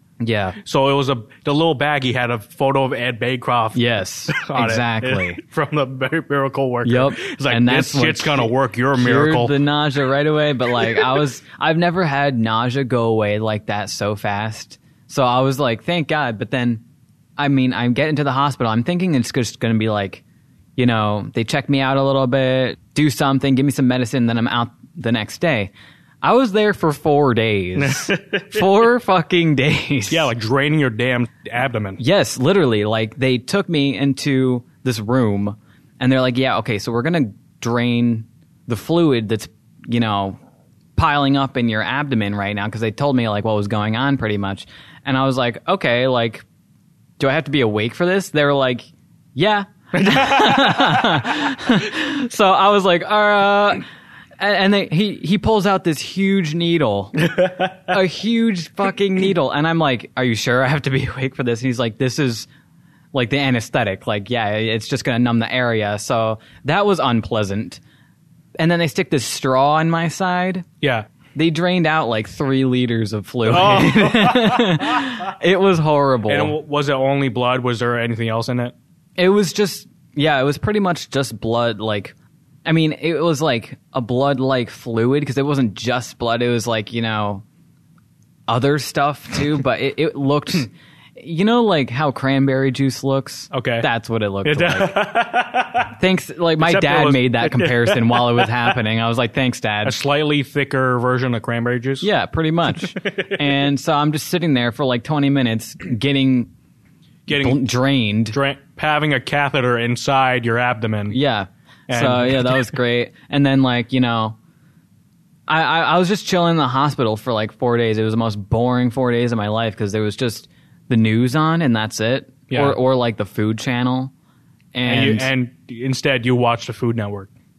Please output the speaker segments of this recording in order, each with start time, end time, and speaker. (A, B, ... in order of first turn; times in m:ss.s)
0:00.2-0:00.6 A
0:00.6-0:09.5 B
0:03.7-0:05.4 A
0:06.8-0:16.8 A
0:17.4-0:20.2 A
0:20.8-0:25.7 A
0:26.2-0:30.3 A
0:27.8-0:28.7 B
0:30.1-0:32.0 B
0:32.0-0:40.4 A
0:41.0-0:46.4 A
0:47.2-0:53.8 A
0:50.1-0:51.1 B
0:54.4-1:02.5 A
1:03.1-1:07.8 A
1:08.6-1:10.7 A
1:10.8-1:11.0 B
1:11.3-1:16.5 A
1:13.5-1:15.1 B
1:16.3-1:18.7 B
1:19.2-1:22.1 A
1:22.6-1:27.4 A
1:28.5-1:35.0 A
1:33.5-1:33.9 B
1:34.4-1:35.9 B
1:36.0-1:40.0 A
1:36.6-1:38.8 B
1:39.8-1:42.1 B
1:42.0-1:46.5 A
1:43.0-1:43.4 B
1:47.3-1:47.6 B
1:47.3-1:48.4 A
1:48.3-1:51.2 B
1:51.1-1:54.4 A
1:51.9-1:52.7 B
1:55.5-2:04.1 A
2:02.5-2:02.8 B
2:04.7-2:05.3 A
2:04.8-2:07.3 B